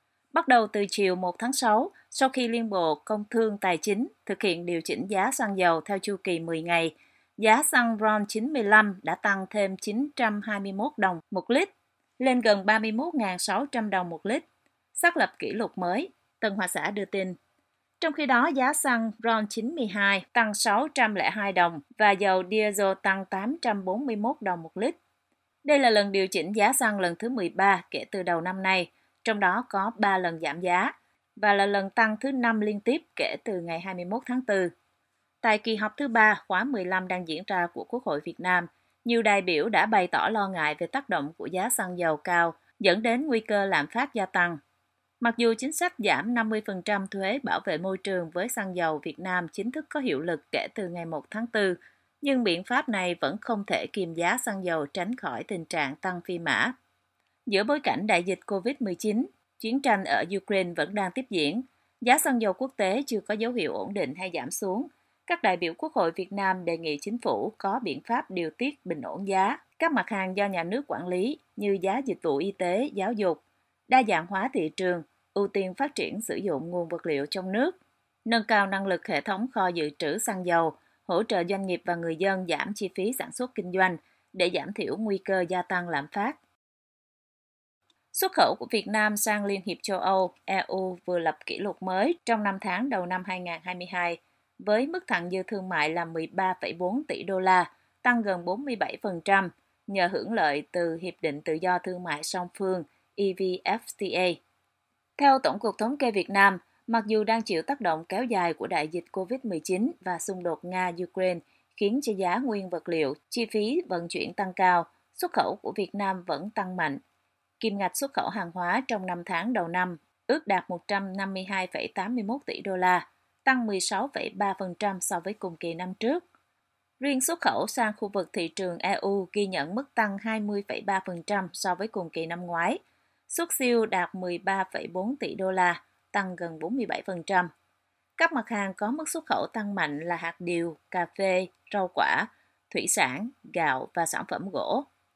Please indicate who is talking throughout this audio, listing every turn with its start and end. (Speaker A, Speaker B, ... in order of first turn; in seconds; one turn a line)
Speaker A: 0.3-14.4
Speaker A: 14.9-17.3
Speaker A: 18.0-24.9
Speaker A: 25.6-34.7
Speaker A: 35.4-44.6
Speaker A: 45.2-56.7
Speaker A: 57.5-86.4
Speaker A: 88.1-104.4
Speaker A: 105.2-117.0
Speaker A: 117.6-126.2
Speaker A: 127.0-137.5
Speaker A: 138.2-144.8